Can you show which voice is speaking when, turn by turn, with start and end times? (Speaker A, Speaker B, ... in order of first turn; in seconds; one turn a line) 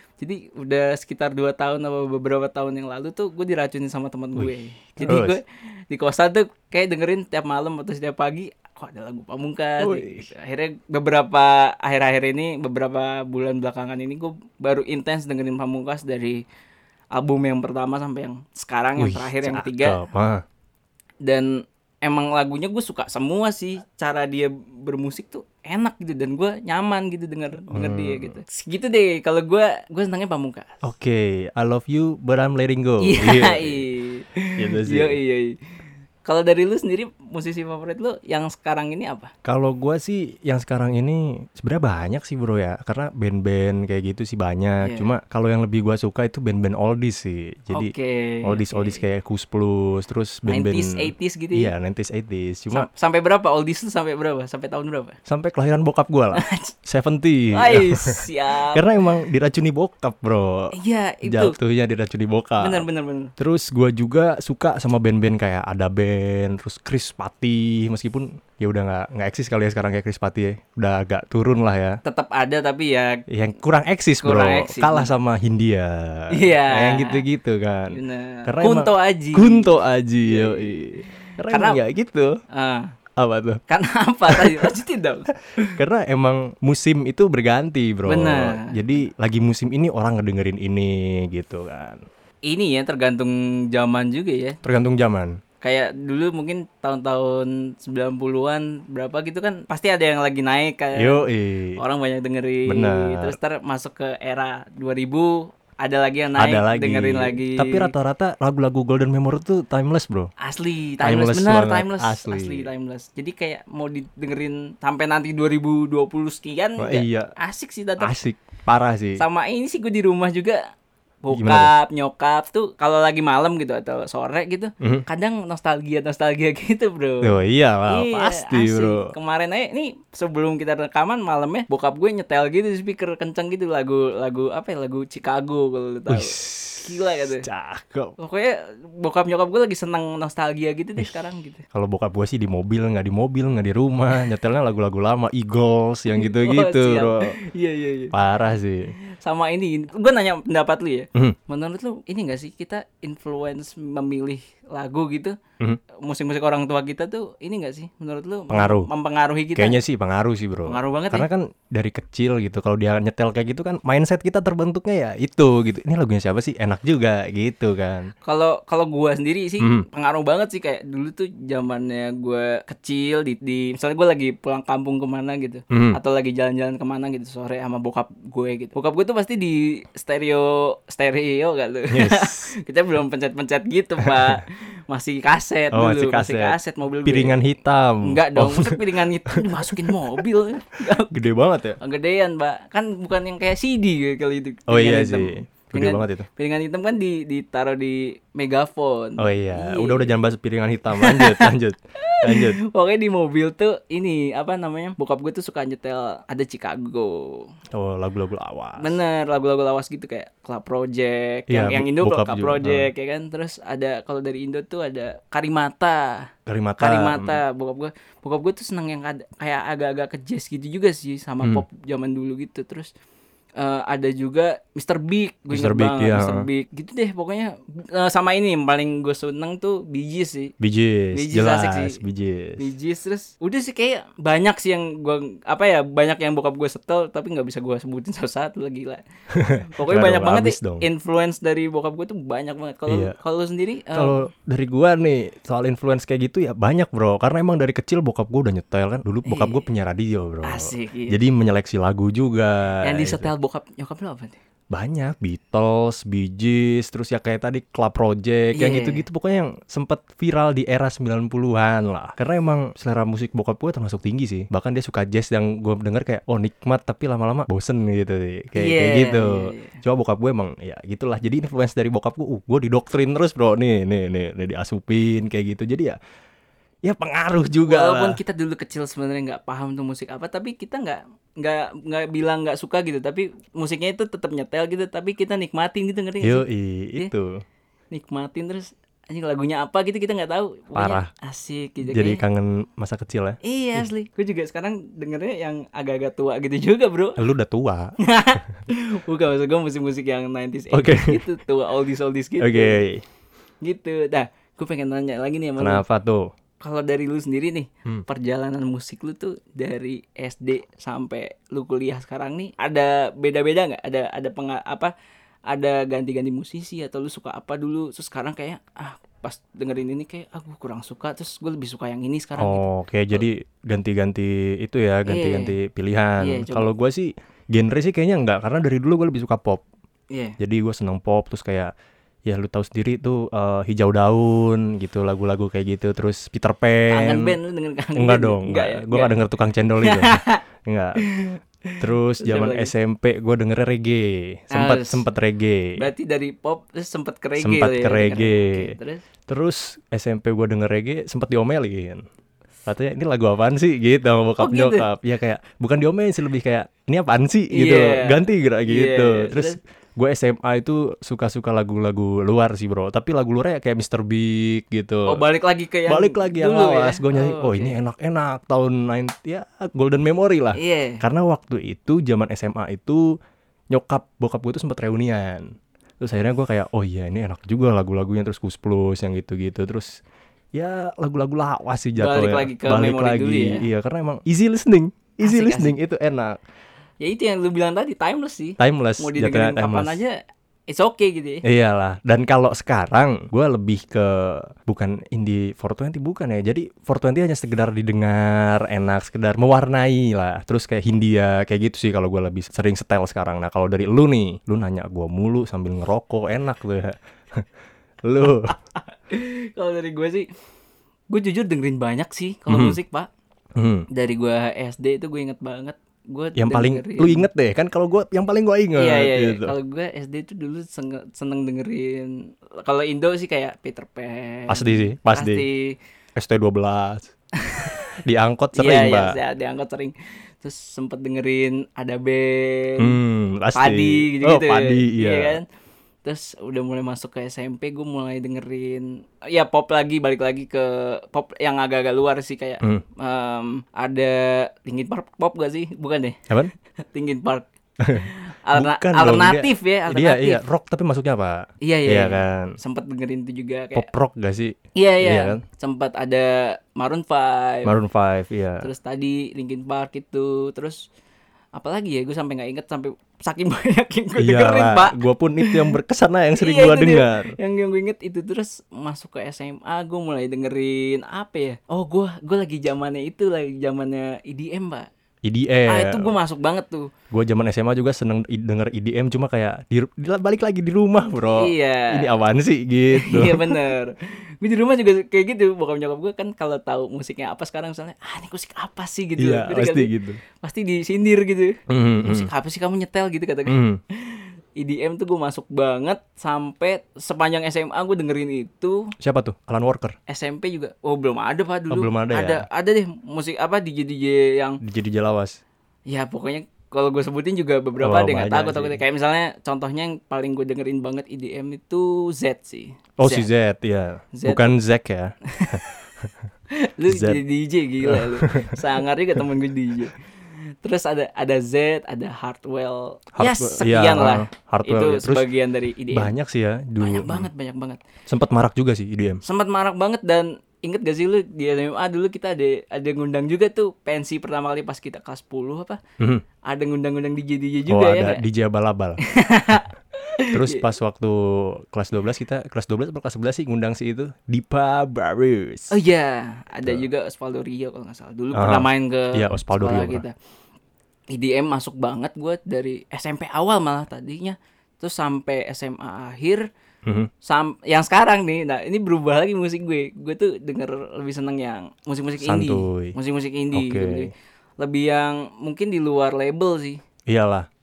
Speaker A: 0.2-16.4
Speaker B: 4.4-5.4
Speaker B: 9.8-10.2
Speaker A: 17.1-20.0
Speaker B: 19.0-20.4
Speaker A: 21.2-30.8
Speaker B: 27.7-28.4
Speaker B: 30.8-33.8
Speaker A: 33.0-35.5
Speaker B: 34.6-35.2
Speaker A: 36.2-39.3
Speaker B: 39.4-47.9
Speaker A: 44.8-45.1
Speaker A: 47.7-49.0
Speaker B: 48.4-52.9
Speaker A: 50.5-51.7
Speaker A: 52.7-55.2
Speaker B: 55.3-60.7
Speaker A: 56.3-56.7
Speaker A: 57.5-58.9
Speaker A: 60.7-61.5
Speaker B: 61.2-62.8
Speaker A: 62.6-63.3
Speaker B: 63.4-72.0
Speaker A: 72.0-73.2
Speaker B: 73.3-82.4
Speaker A: 74.2-75.1
Speaker A: 76.3-77.2
Speaker A: 77.9-81.8
Speaker A: 82.5-82.9
Speaker B: 83.2-83.6
Speaker A: 83.7-85.8
Speaker B: 84.3-84.7
Speaker B: 85.5-92.0
Speaker A: 88.0-89.0
Speaker A: 92.4-94.6
Speaker B: 94.6-95.4
Speaker A: 95.6-101.2
Speaker B: 101.0-101.8
Speaker A: 101.8-107.9
Speaker B: 102.7-103.4
Speaker B: 106.4-110.3
Speaker A: 110.4-118.2
Speaker B: 111.0-112.7
Speaker B: 116.8-117.3
Speaker B: 118.0-119.2
Speaker A: 119.2-120.6
Speaker A: 121.2-137.5
Speaker B: 121.3-121.7
Speaker B: 127.2-129.1
Speaker B: 136.1-138.2
Speaker A: 138.2-141.6
Speaker B: 141.7-147.4
Speaker A: 146.1-148.1
Speaker B: 148.1-148.9
Speaker A: 149.1-155.4
Speaker A: 155.9-159.8
Speaker B: 158.5-158.9
Speaker B: 159.6-168.1
Speaker A: 160.7-161.3
Speaker A: 168.2-187.3
Speaker B: 175.7-176.0
Speaker B: 181.9-182.5
Speaker B: 184.0-184.4
Speaker B: 185.7-190.0
Speaker A: 188.0-191.1
Speaker B: 191.1-191.8
Speaker A: 191.8-200.1
Speaker B: 194.7-196.2
Speaker B: 199.2-202.6
Speaker A: 201.0-207.5
Speaker B: 207.7-209.0
Speaker A: 208.8-222.9
Speaker B: 211.5-212.9
Speaker B: 216.4-217.4
Speaker A: 223.6-230.5
Speaker B: 225.5-226.5
Speaker B: 230.6-232.6
Speaker A: 231.1-232.0
Speaker A: 232.6-239.0
Speaker B: 239.3-240.8
Speaker A: 239.8-244.2
Speaker B: 242.9-243.2
Speaker B: 243.9-253.3
Speaker A: 249.2-249.6
Speaker A: 250.4-251.2
Speaker A: 252.8-254.4
Speaker B: 254.7-276.0
Speaker A: 258.5-259.0
Speaker A: 268.6-269.8
Speaker B: 276.8-278.2
Speaker A: 277.6-287.1
Speaker B: 286.2-287.4
Speaker A: 287.9-292.2
Speaker B: 290.7-291.1
Speaker B: 291.8-293.8
Speaker A: 293.4-297.2
Speaker B: 297.2-297.9
Speaker A: 298.0-302.8
Speaker B: 300.7-301.2
Speaker B: 302.4-303.1
Speaker A: 303.6-305.8
Speaker B: 305.6-306.3
Speaker A: 306.6-314.9
Speaker A: 315.5-323.2
Speaker B: 322.4-329.6
Speaker A: 325.1-325.5
Speaker A: 326.2-326.7
Speaker A: 330.1-330.4
Speaker B: 330.4-331.7
Speaker B: 332.2-337.3
Speaker A: 336.9-339.2
Speaker B: 337.9-341.0
Speaker A: 339.8-340.4
Speaker A: 341.0-342.7
Speaker B: 341.8-345.8
Speaker A: 344.5-345.1
Speaker A: 345.8-349.1
Speaker B: 347.4-348.8
Speaker B: 349.3-352.0
Speaker B: 352.6-365.2
Speaker A: 354.4-354.9
Speaker A: 357.5-359.6
Speaker A: 365.1-367.8
Speaker B: 365.9-373.1
Speaker A: 370.5-371.0
Speaker B: 373.7-380.0
Speaker B: 380.5-386.4
Speaker A: 382.0-383.6
Speaker A: 385.2-385.8
Speaker A: 387.0-390.2
Speaker B: 388.6-390.0
Speaker A: 390.7-391.4
Speaker B: 391.4-407.5
Speaker B: 408.0-408.5
Speaker A: 408.9-410.3
Speaker A: 411.1-413.1
Speaker B: 412.5-412.8
Speaker B: 413.6-413.9
Speaker A: 413.9-417.3
Speaker B: 416.4-419.5
Speaker A: 418.8-425.8
Speaker B: 424.5-425.4
Speaker B: 426.1-427.1
Speaker A: 427.4-427.9
Speaker B: 427.6-429.2
Speaker A: 428.5-433.0
Speaker B: 432.8-435.4
Speaker A: 433.5-435.4
Speaker A: 436.0-446.3
Speaker A: 446.8-450.4
Speaker B: 447.8-452.6
Speaker A: 451.6-453.9
Speaker B: 453.7-455.4
Speaker A: 454.8-457.7
Speaker B: 457.6-458.7
Speaker A: 458.6-460.8
Speaker A: 461.5-465.7
Speaker B: 464.2-467.3
Speaker A: 466.4-474.9
Speaker B: 475.2-476.1
Speaker A: 475.7-476.9
Speaker B: 477.1-483.7
Speaker A: 481.3-482.1
Speaker A: 482.9-498.9
Speaker B: 489.2-490.2
Speaker B: 491.7-492.3
Speaker B: 493.5-493.8
Speaker B: 499.0-499.9
Speaker A: 500.1-504.6
Speaker B: 501.7-502.4
Speaker B: 504.6-505.4
Speaker A: 505.9-513.3
Speaker B: 507.8-508.8
Speaker B: 513.0-516.1
Speaker A: 514.1-514.5
Speaker A: 515.3-515.9
Speaker A: 516.5-520.0
Speaker B: 516.9-517.2
Speaker B: 517.8-518.8
Speaker A: 520.6-526.1
Speaker B: 523.1-525.3
Speaker B: 525.9-527.3
Speaker A: 526.8-527.8
Speaker B: 528.1-529.2
Speaker A: 529.2-535.8
Speaker B: 536.0-536.2
Speaker A: 536.4-538.2
Speaker B: 537.7-539.0
Speaker A: 539.0-540.6
Speaker B: 540.2-545.8
Speaker A: 545.7-550.1
Speaker B: 548.3-550.0
Speaker A: 551.1-556.5
Speaker B: 556.8-557.1
Speaker A: 557.2-566.8
Speaker B: 562.2-563.0
Speaker B: 563.5-564.1
Speaker B: 567.1-567.5